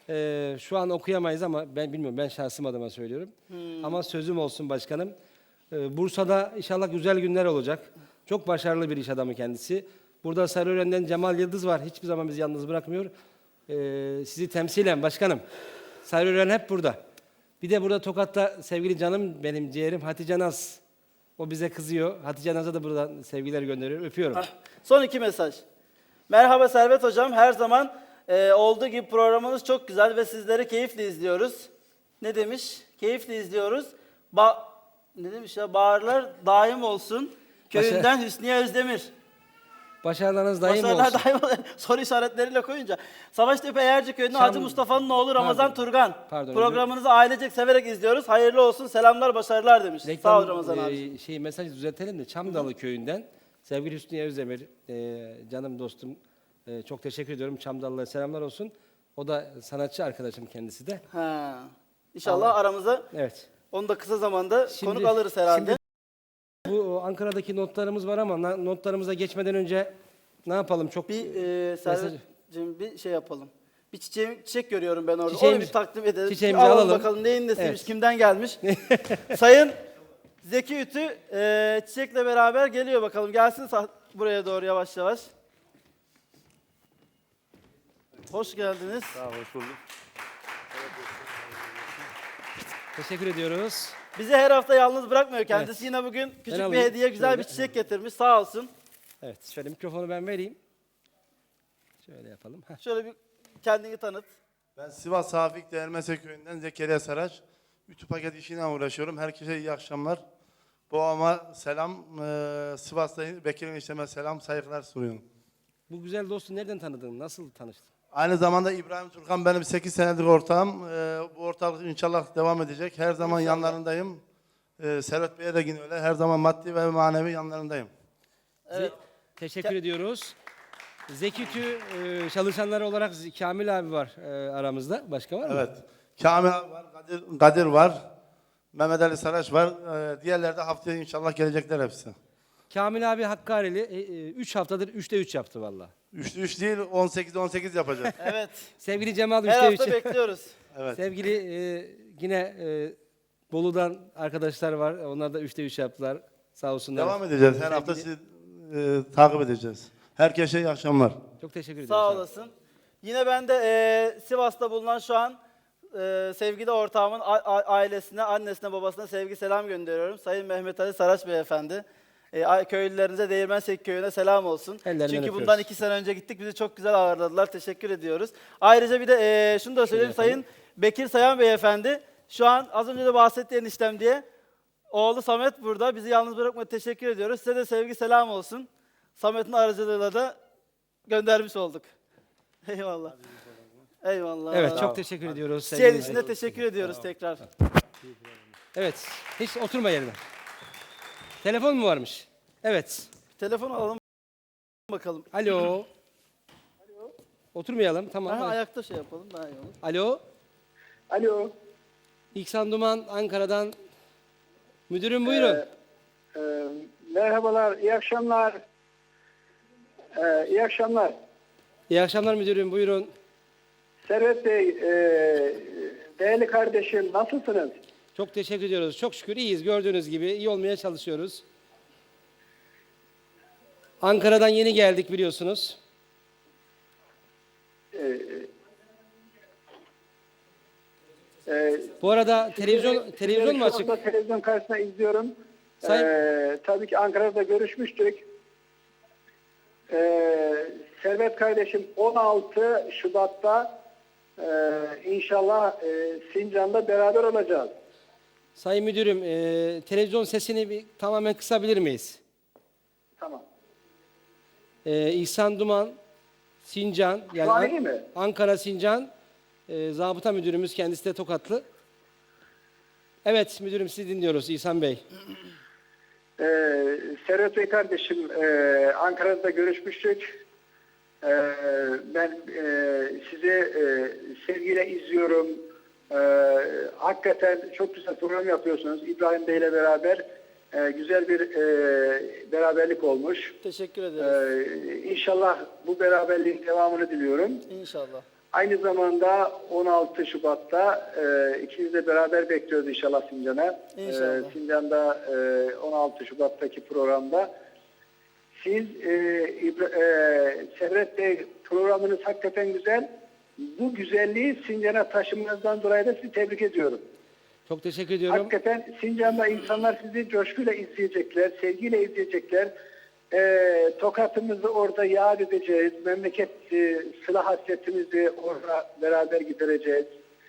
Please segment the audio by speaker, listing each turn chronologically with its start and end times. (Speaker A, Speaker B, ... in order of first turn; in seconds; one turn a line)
Speaker A: 0.1-5.1
Speaker B: 3.5-4.0
Speaker A: 5.7-13.1
Speaker A: 13.7-15.4
Speaker A: 16.0-17.0
Speaker A: 17.6-20.8
Speaker A: 21.4-24.4
Speaker B: 24.4-25.6
Speaker B: 26.3-31.7
Speaker B: 32.2-39.1
Speaker A: 37.8-38.1
Speaker A: 40.0-41.2
Speaker B: 40.6-51.1
Speaker A: 44.3-44.8
Speaker A: 45.4-46.9
Speaker A: 50.0-61.0
Speaker B: 61.1-63.1
Speaker A: 62.2-62.5
Speaker A: 63.1-63.5
Speaker B: 63.7-65.8
Speaker A: 64.7-65.8
Speaker A: 66.6-69.9
Speaker A: 70.5-72.2
Speaker B: 71.1-78.6
Speaker A: 75.3-75.7
Speaker A: 76.3-77.9
Speaker A: 78.6-79.3
Speaker B: 79.3-79.8
Speaker B: 80.4-85.3
Speaker B: 88.3-89.2
Speaker C: 89.2-89.8
Speaker A: 93.0-94.0
Speaker B: 94.2-98.7
Speaker A: 95.5-95.9
Speaker A: 96.5-97.7
Speaker A: 99.2-100.6
Speaker A: 102.0-102.8
Speaker B: 102.8-104.3
Speaker C: 104.8-110.2
Speaker C: 110.9-115.2
Speaker A: 115.9-117.9
Speaker C: 118.1-124.2
Speaker B: 123.2-123.8
Speaker C: 124.8-127.9
Speaker B: 128.7-128.9
Speaker A: 128.7-130.3
Speaker A: 131.1-135.7
Speaker C: 135.5-138.0
Speaker C: 138.7-142.2
Speaker A: 142.7-145.9
Speaker C: 146.1-148.1
Speaker B: 148.2-148.7
Speaker A: 148.8-150.2
Speaker B: 149.5-150.6
Speaker C: 150.7-151.0
Speaker A: 150.9-152.9
Speaker A: 153.5-158.1
Speaker C: 157.0-161.2
Speaker A: 161.4-162.2
Speaker B: 161.9-162.5
Speaker B: 163.0-165.4
Speaker B: 165.9-184.2
Speaker A: 174.8-175.7
Speaker A: 179.9-180.4
Speaker B: 184.9-190.4
Speaker B: 191.1-191.9
Speaker B: 192.7-193.2
Speaker B: 194.0-194.9
Speaker A: 194.5-196.6
Speaker B: 195.7-197.5
Speaker A: 198.7-200.2
Speaker A: 201.4-203.1
Speaker B: 203.4-204.2
Speaker B: 204.8-205.3
Speaker A: 205.3-205.9
Speaker D: 206.8-207.1
Speaker A: 207.5-208.6
Speaker B: 208.3-209.8
Speaker A: 209.8-210.2
Speaker D: 211.1-211.5
Speaker A: 212.3-213.7
Speaker A: 214.9-215.6
Speaker D: 215.2-215.7
Speaker D: 216.3-218.6
Speaker D: 220.2-221.1
Speaker A: 221.9-223.1
Speaker D: 224.1-227.8
Speaker A: 228.2-231.4
Speaker A: 234.0-235.8
Speaker D: 237.9-238.5
Speaker D: 241.5-241.9
Speaker A: 242.0-244.0
Speaker D: 242.5-248.2
Speaker A: 245.8-246.1
Speaker D: 249.9-253.7
Speaker D: 254.4-257.7
Speaker A: 258.6-262.2
Speaker D: 263.2-263.4
Speaker A: 264.9-266.0
Speaker A: 266.6-269.1
Speaker D: 267.4-268.1
Speaker A: 269.7-271.6
Speaker A: 273.2-275.0
Speaker D: 276.4-280.3
Speaker D: 281.2-293.5
Speaker B: 293.6-294.4
Speaker D: 294.2-297.7
Speaker B: 297.7-298.2
Speaker D: 298.5-307.5
Speaker B: 304.0-304.6
Speaker D: 308.6-313.1
Speaker D: 313.6-317.0
Speaker A: 317.7-318.5
Speaker D: 318.3-322.7
Speaker D: 323.3-330.1